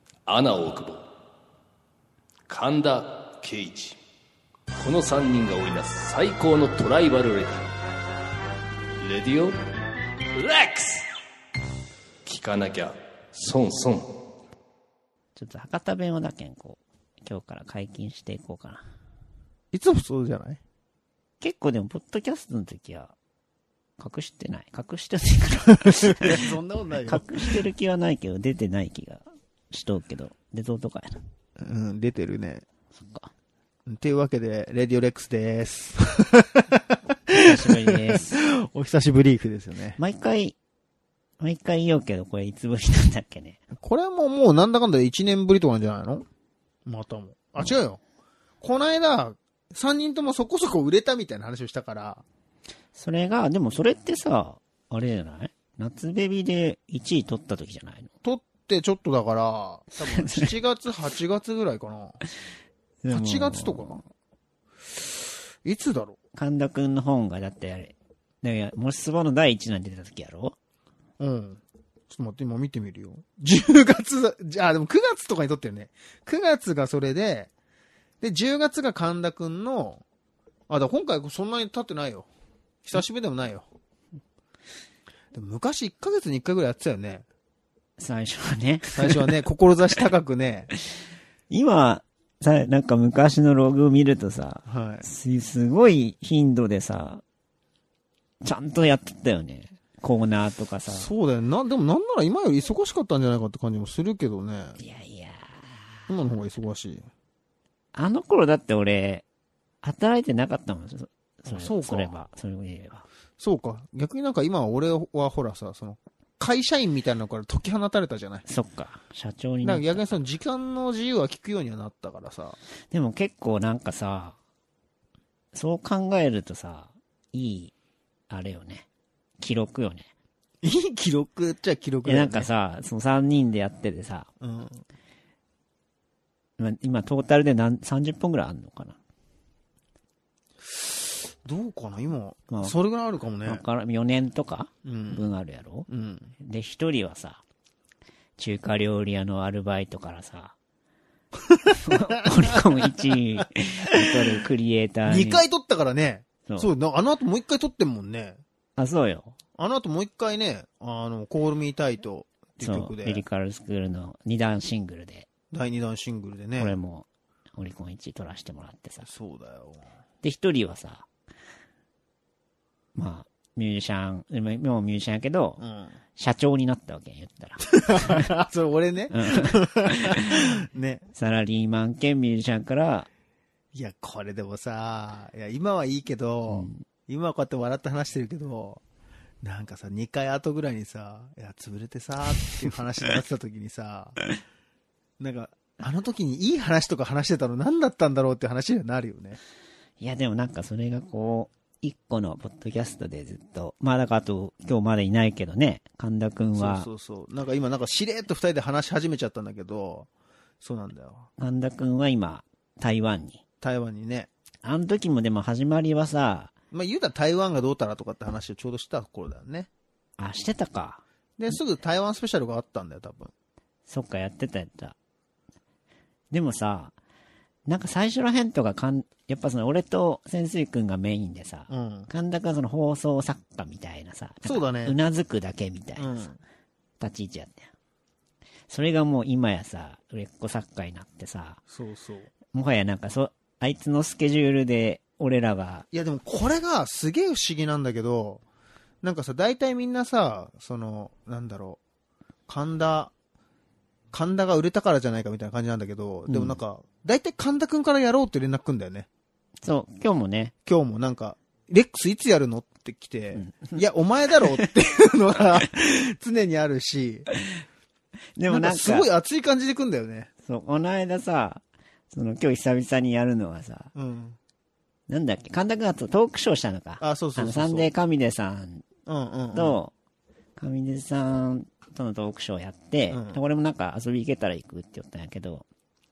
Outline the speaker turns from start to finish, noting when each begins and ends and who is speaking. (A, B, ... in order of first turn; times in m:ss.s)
0:00.3-0:01.0 A
0:02.5-0:04.0 A
0:04.8-0:07.6 A
0:09.0-0:09.5 A
0:10.3-0:11.1 A
0:12.2-0:14.1 A
0:15.4-0:18.8 B
0:19.7-0:20.6 C
0:21.4-0:23.1 B
0:24.0-0:26.5 B
0:26.0-0:27.5 C
0:27.0-0:31.2 B
0:31.6-0:32.6 C
0:32.9-0:33.3 B
0:33.9-0:40.0 C
0:37.4-0:38.4 B
0:40.0-0:40.6 B
0:41.4-0:43.6 B
0:43.7-0:46.2 C
0:46.8-0:48.0 C
0:48.6-0:52.2 C
0:52.9-0:58.1 B
0:58.2-1:02.2 C
1:00.0-1:00.5 B
1:03.0-1:04.0 B
1:03.1-1:04.0 C
1:05.6-1:06.2 C
1:06.3-1:10.6 B
1:11.2-1:17.5 C
1:18.2-1:20.0 C
1:20.7-1:22.3 C
1:22.8-1:23.7 C
1:25.3-1:27.2 C
1:28.0-1:29.3 B
1:28.9-1:30.7 C
1:31.5-1:37.2 B
1:34.6-1:35.0 C
1:38.4-1:41.1 B
1:40.9-1:44.8 C
1:44.8-1:46.0 B
1:46.1-1:47.1 C
1:47.9-1:49.2 B
1:49.8-1:53.1 B
1:51.5-1:52.1 C
1:53.4-1:58.4 C
1:58.4-2:00.1 B
1:59.6-2:02.6 C
2:02.9-2:04.4 B
2:05.5-2:07.7 B
2:08.3-2:08.8 B
2:09.4-2:10.1 B
2:10.6-2:12.5 C
2:12.0-2:14.3 B
2:14.4-2:14.8 C
2:16.6-2:19.0 B
2:20.6-2:23.6 C
2:23.4-2:25.9 B
2:24.8-2:25.3 C
2:25.9-2:26.3 C
2:26.4-2:27.4 B
2:28.4-2:30.5 B
2:31.5-2:33.2 C
2:31.8-2:35.4 B
2:35.1-2:38.4 C
2:38.8-2:39.3 B
2:39.6-2:43.2 C
2:42.6-2:45.3 B
2:45.5-2:46.8 C
2:46.6-2:49.1 B
2:49.0-2:49.9 C
2:50.2-2:51.1 B
2:52.9-2:55.6 B
2:55.6-2:56.0 C
2:56.1-2:58.3 B
2:57.7-3:01.1 C
2:59.1-3:00.4 B
3:01.1-3:03.1 B
3:03.7-3:08.8 C
3:06.5-3:06.8 B
3:09.4-3:14.2 C
3:15.2-3:19.4 C
3:20.0-3:26.9 B
3:26.6-3:30.1 C
3:30.6-3:31.3 C
3:31.4-3:33.4 B
3:33.6-3:34.3 C
3:34.6-3:36.5 B
3:36.7-3:39.7 C
3:40.2-3:41.0 B
3:41.4-3:43.3 C
3:43.9-3:45.0 B
3:46.3-3:46.9 B
3:47.7-3:56.1 B
3:51.7-3:52.1 C
3:54.4-3:55.0 C
3:56.0-3:56.4 C
3:57.0-3:57.7 B
3:58.7-4:01.6 B
4:01.7-4:02.3 C
4:02.5-4:05.9 B
4:05.9-4:08.4 C
4:09.0-4:11.8 C
4:12.5-4:13.1 C
4:14.1-4:19.1 C
4:16.3-4:16.6 B
4:19.6-4:20.5 B
4:20.6-4:27.3 C
4:23.4-4:23.8 B
4:28.4-4:29.1 B
4:28.5-4:30.3 C
4:30.4-4:33.9 B
4:33.9-4:34.4 C
4:35.1-4:38.8 B
4:37.0-4:37.9 C
4:39.0-4:39.8 C
4:39.5-4:39.9 B
4:40.6-4:45.6 B
4:43.1-4:43.4 C